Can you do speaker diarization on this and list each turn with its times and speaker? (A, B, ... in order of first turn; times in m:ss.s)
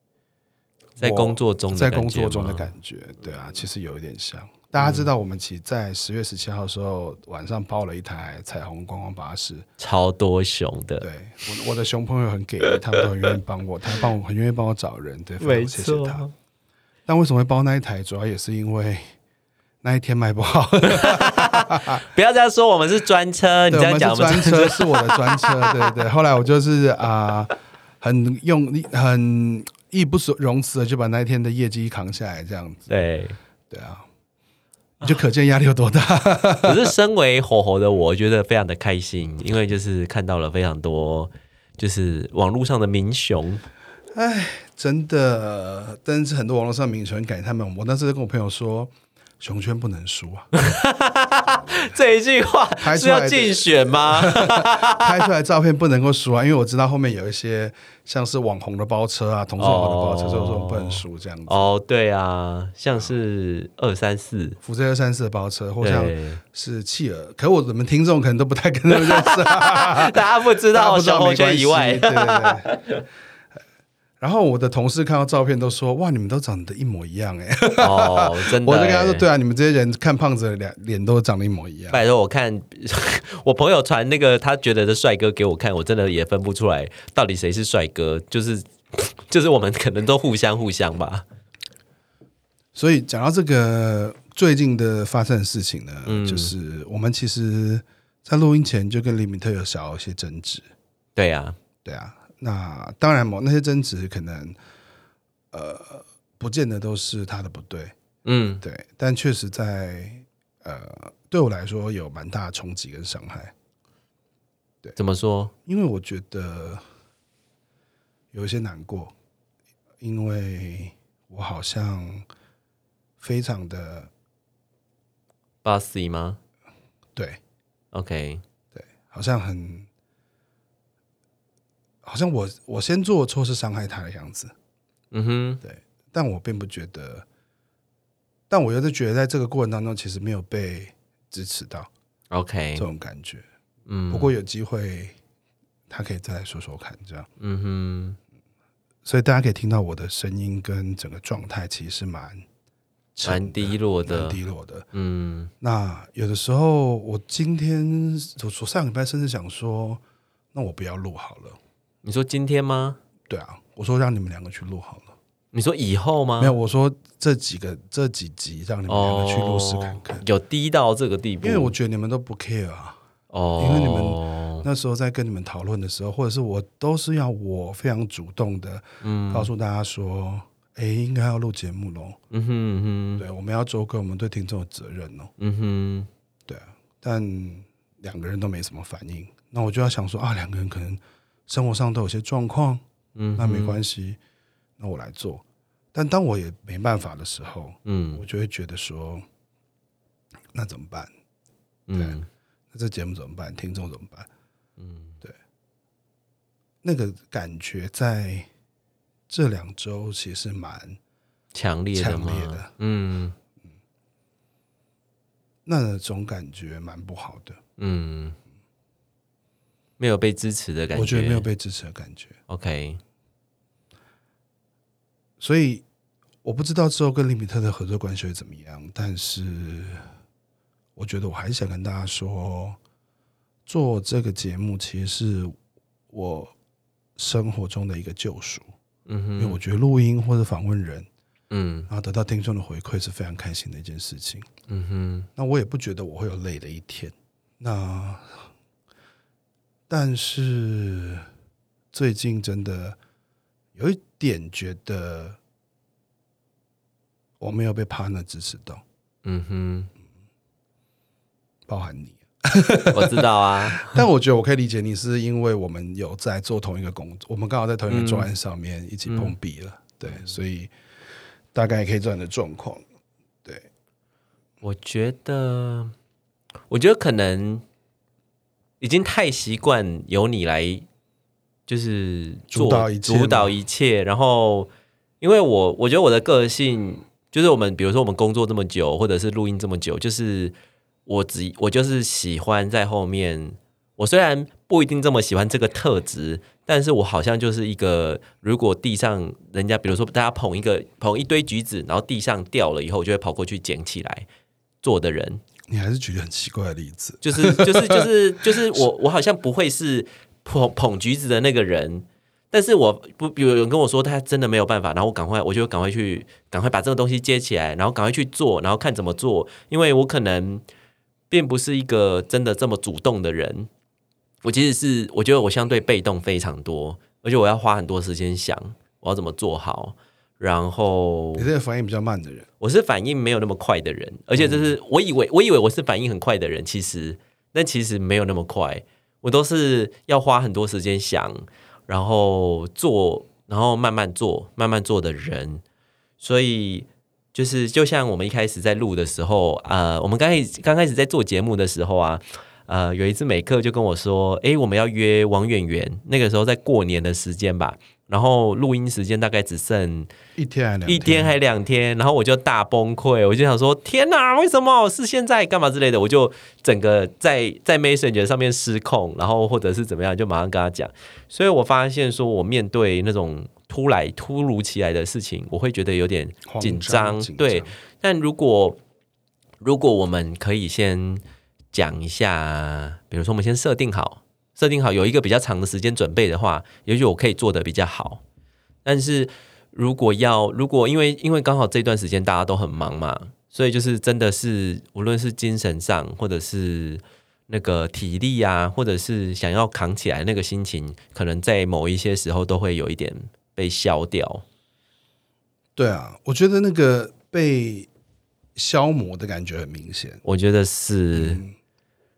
0:01.0-0:09.6 A
0:01.0-0:02.7 B
0:04.8-0:05.1 B
0:09.8-0:11.0 B
0:11.0-0:16.2 A
0:15.4-0:16.3 B
0:17.0-0:19.1 A
0:19.8-0:22.0 A
0:20.8-0:26.0 B
0:23.7-0:32.9 A
0:32.9-0:33.4 B
0:33.7-0:34.0 A
0:35.0-0:36.9 A
0:36.6-0:43.6 B
0:44.1-0:50.5 A
0:50.5-0:55.3 B
0:52.8-1:01.7 A
0:59.6-1:04.6 B
1:04.6-1:10.2 A
1:05.8-1:06.4 B
1:08.9-1:13.0 B
1:10.7-1:12.7 A
1:14.2-1:22.0 A
1:17.8-1:19.2 B
1:21.9-1:31.2 B
1:32.7-1:40.7 A
1:36.0-1:36.5 B
1:41.2-1:41.6 B
1:41.8-1:44.6 A
1:45.5-1:47.9 A
1:48.2-1:48.6 B
1:48.6-1:53.5 A
1:55.0-1:55.5 B
1:55.6-1:56.8 A
1:58.3-1:59.1 A
2:00.0-2:02.2 A
2:03.2-2:04.1 A
2:05.6-2:06.4 B
2:07.9-2:08.4 B
2:08.7-2:09.9 A
2:12.0-2:14.5 A
2:15.1-2:15.6 B
2:15.6-2:17.2 A
2:18.5-2:21.9 A
2:22.3-2:22.8 B
2:22.8-2:23.4 A
2:23.9-2:24.3 B
2:24.1-2:25.1 A
2:25.9-2:27.3 A
2:27.4-2:28.2 B
2:29.0-2:32.4 A
2:33.1-2:34.8 A
2:33.2-2:34.4 B
2:34.9-2:35.5 B
2:35.6-2:40.0 A
2:40.5-2:41.6 A
2:42.0-2:43.0 B
2:43.3-2:45.1 A
2:45.5-2:46.5 B
2:46.4-2:50.2 A
2:48.9-2:51.7 B
2:51.4-2:53.0 A
2:53.3-2:54.6 B
2:53.6-3:02.2 A
2:59.0-2:59.5 B
3:02.3-3:03.2 B
3:03.2-3:05.3 A
3:05.4-3:06.1 B
3:06.5-3:12.8 A
3:13.1-3:13.8 B
3:13.4-3:14.2 A
3:14.8-3:15.4 A
3:15.9-3:19.2 A
3:17.8-3:18.2 B
3:20.5-3:21.1 A
3:21.9-3:22.3 B
3:22.7-3:24.3 A
3:24.8-3:25.2 B
3:26.8-3:28.5 A
3:29.3-3:31.0 A
3:31.5-3:33.3 B
3:31.9-3:32.7 A
3:35.6-3:37.6 A
3:37.8-3:38.4 B
3:40.0-3:41.5 B
3:40.9-3:42.4 A
3:42.5-3:43.0 B
3:45.4-3:45.8 A
3:46.4-3:50.0 A
3:51.0-3:52.8 A
3:53.6-3:55.5 A
3:56.1-3:56.5 A
3:57.2-3:58.7 A
3:59.1-3:59.6 B
3:59.4-4:01.1 A
4:01.5-4:01.9 B
4:01.9-4:04.5 A
4:04.7-4:05.3 B
4:05.4-4:08.5 A
4:09.9-4:11.2 A
4:11.9-4:13.0 A
4:13.7-4:15.4 A
4:17.4-4:18.8 A
4:19.2-4:19.9 B
4:21.7-4:30.7 A
4:22.9-4:24.0 B
4:27.9-4:28.3 B
4:29.1-4:29.3 B
4:30.1-4:30.3 B
4:31.5-4:32.8 A
4:34.6-4:35.9 B
4:36.7-4:37.6 B
4:38.8-4:40.8 B
4:41.7-4:44.7 B
4:42.5-4:43.5 A
4:45.2-4:50.5 B
4:51.0-5:04.3 B
5:04.8-5:05.4 B
5:05.7-5:08.8 A
5:07.2-5:20.6 B
5:21.3-5:23.7 B
5:24.4-5:31.5 B
5:31.4-5:32.5 A
5:32.6-5:45.6 B
5:34.4-5:34.7 A
5:46.2-6:00.1 B
6:00.4-6:01.4 A
6:00.8-6:18.8 B
6:16.5-6:17.7 A
6:19.6-6:28.2 B
6:28.8-6:44.4 B
6:45.8-6:47.9 A
6:48.5-6:50.2 A
6:50.2-6:51.4 B
6:51.1-6:51.5 A